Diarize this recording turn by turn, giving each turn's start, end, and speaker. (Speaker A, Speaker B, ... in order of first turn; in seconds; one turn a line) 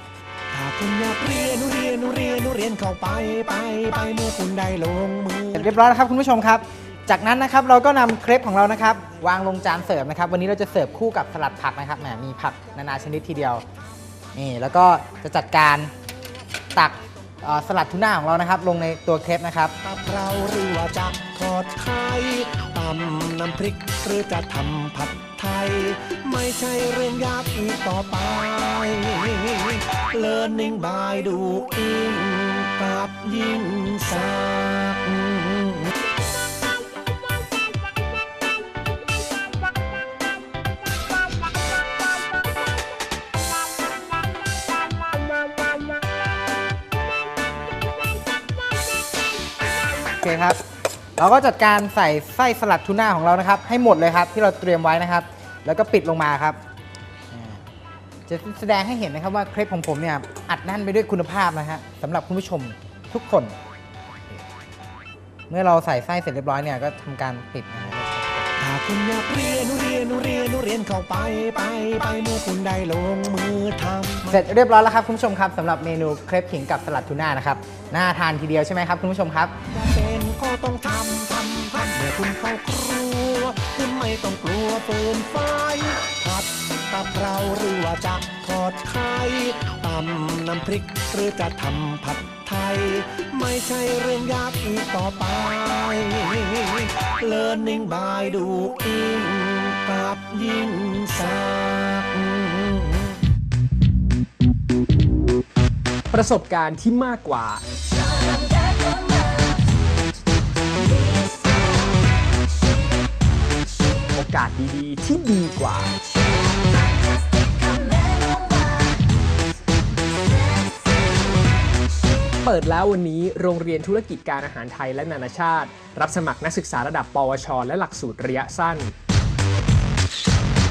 Speaker A: 0.5-5.7
Speaker B: 5.5-13.6
Speaker B: 14.3-15.9
Speaker B: 16.7-19.7
Speaker A: 19.8-35.9
Speaker B: 50.2-50.6
Speaker B: 51.2-56.6
Speaker B: 57.3-57.6
Speaker B: 58.3-63.5
Speaker B: 64.1-64.4
Speaker B: 65.5-68.5
Speaker A: 68.6-74.4
Speaker B: 74.3-79.5
Speaker A: 79.7-103.1
Speaker C: 106.1-107.6
Speaker C: 114.1-115.9
Speaker C: 122.4-128.9